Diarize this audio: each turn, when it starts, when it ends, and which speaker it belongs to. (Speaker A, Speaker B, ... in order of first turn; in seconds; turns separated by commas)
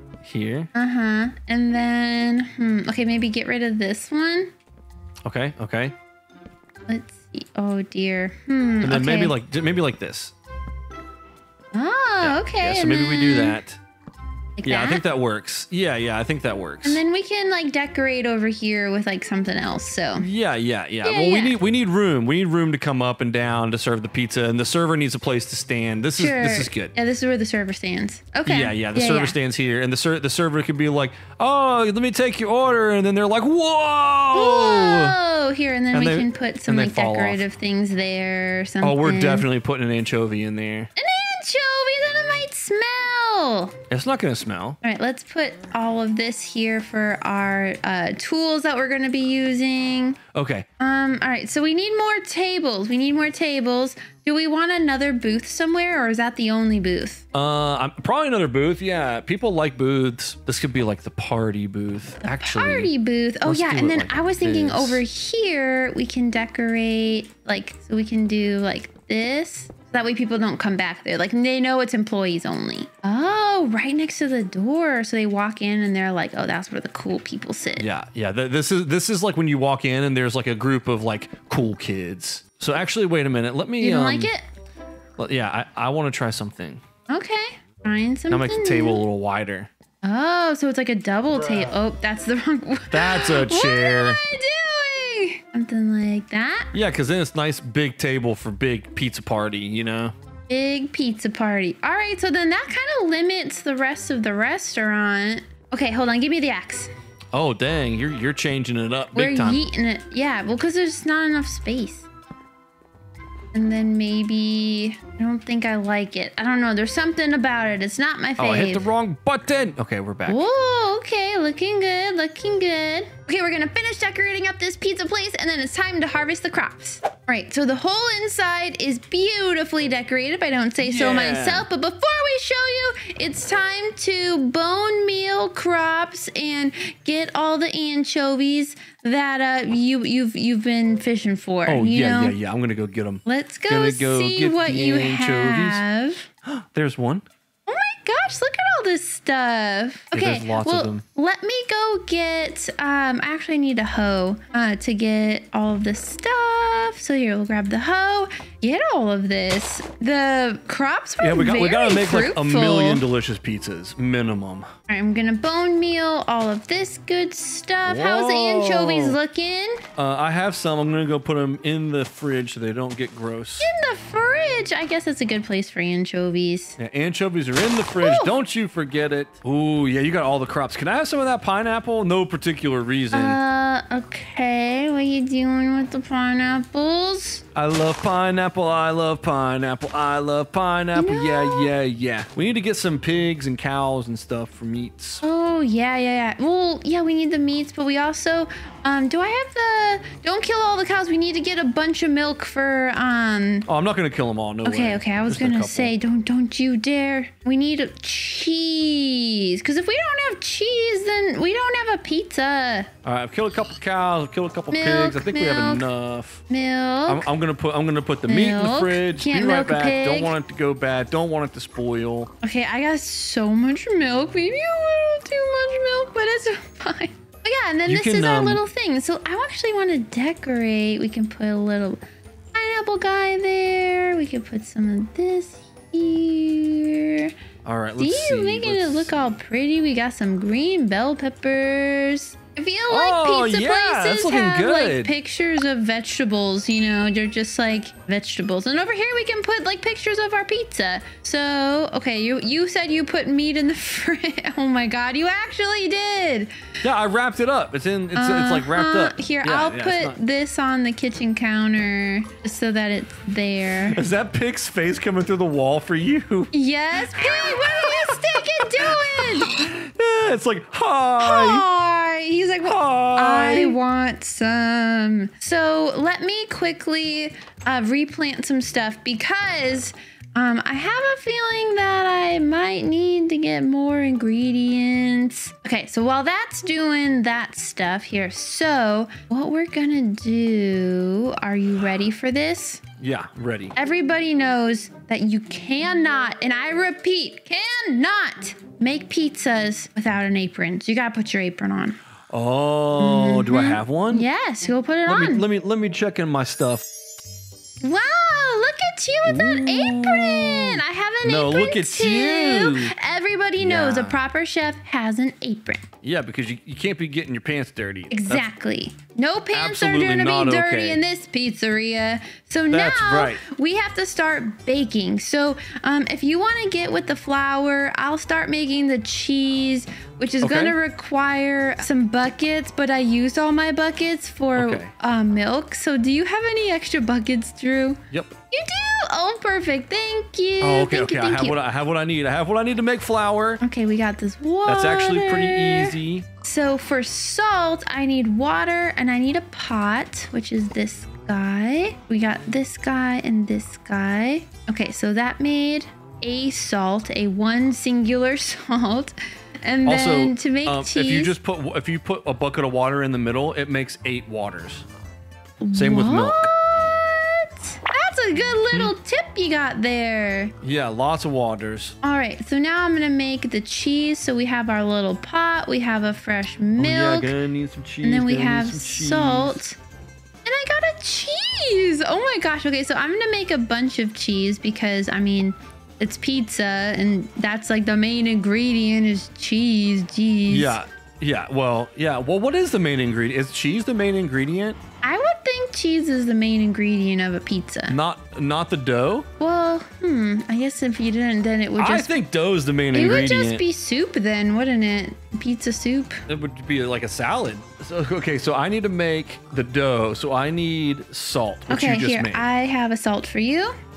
Speaker A: 0.2-0.7, Speaker B: 0.8-4.5, Speaker A: 5.2-6.0, Speaker B: 6.9-9.4, Speaker A: 8.8-10.3, Speaker B: 11.7-13.6, Speaker A: 12.2-13.8, Speaker B: 14.6-15.0, Speaker A: 14.6-17.0, Speaker B: 16.8-20.3, Speaker A: 20.2-26.9, Speaker B: 21.0-21.6, Speaker B: 26.2-29.4, Speaker A: 28.5-35.2, Speaker B: 34.3-39.5, Speaker A: 35.9-37.4, Speaker A: 38.8-40.9, Speaker B: 41.0-43.8, Speaker A: 43.9-44.8, Speaker B: 44.8-50.2, Speaker A: 50.4-50.7, Speaker B: 50.8-57.2, Speaker A: 57.3-62.9, Speaker B: 62.2-77.9, Speaker A: 63.5-65.0, Speaker A: 77.8-84.3, Speaker B: 83.8-84.5, Speaker A: 85.2-86.8, Speaker B: 87.1-89.0, Speaker A: 88.3-89.7, Speaker B: 90.0-96.7, Speaker A: 92.9-94.2, Speaker A: 96.7-100.1, Speaker B: 100.5-106.9, Speaker A: 107.3-109.6, Speaker B: 109.1-112.1, Speaker B: 113.5-118.9, Speaker A: 118.4-120.4, Speaker B: 120.3-142.4, Speaker A: 130.8-131.7, Speaker A: 141.7-145.8, Speaker B: 143.2-146.3, Speaker A: 146.4-147.2, Speaker B: 147.7-163.0, Speaker A: 150.1-151.0, Speaker A: 161.2-164.7, Speaker B: 164.9-169.8, Speaker A: 167.9-169.2, Speaker A: 170.0-173.7, Speaker B: 173.6-176.8, Speaker A: 176.8-183.4, Speaker B: 178.0-178.3, Speaker B: 183.1-187.4, Speaker A: 187.6-195.2, Speaker B: 190.9-191.7, Speaker B: 195.2-203.7, Speaker A: 203.7-205.9, Speaker B: 204.7-212.9, Speaker A: 213.0-216.4, Speaker B: 214.7-215.9, Speaker B: 216.5-217.3, Speaker A: 217.1-222.3, Speaker B: 218.3-220.3, Speaker B: 222.4-232.0, Speaker A: 227.9-228.6, Speaker B: 232.5-237.3, Speaker A: 237.7-239.1, Speaker B: 238.0-256.5, Speaker A: 242.9-245.1, Speaker A: 256.8-260.2, Speaker B: 258.1-264.0, Speaker A: 263.9-271.7, Speaker B: 266.5-269.6, Speaker B: 271.2-292.8, Speaker A: 272.6-273.8, Speaker A: 293.0-293.7, Speaker B: 293.8-302.0, Speaker A: 302.3-304.3, Speaker B: 303.0-305.4, Speaker A: 305.1-306.9, Speaker B: 307.8-315.9, Speaker A: 309.3-312.9, Speaker A: 313.6-314.2, Speaker A: 316.0-318.5, Speaker B: 318.1-338.0, Speaker A: 319.5-321.0, Speaker A: 322.7-323.4, Speaker A: 330.4-330.8, Speaker A: 334.6-334.9, Speaker B: 338.5-341.6, Speaker A: 340.6-343.6, Speaker B: 343.6-361.3, Speaker A: 344.7-346.3, Speaker A: 359.9-364.9, Speaker B: 365.6-370.6, Speaker A: 365.7-366.5, Speaker A: 370.6-372.0, Speaker B: 372.0-377.4, Speaker A: 376.8-379.6, Speaker B: 378.0-379.8, Speaker B: 380.4-390.8, Speaker A: 390.5-394.8, Speaker B: 395.0-398.0, Speaker A: 397.9-399.3, Speaker B: 399.4-402.1, Speaker A: 401.8-403.6, Speaker B: 402.9-406.2, Speaker A: 406.3-412.5, Speaker B: 411.7-413.8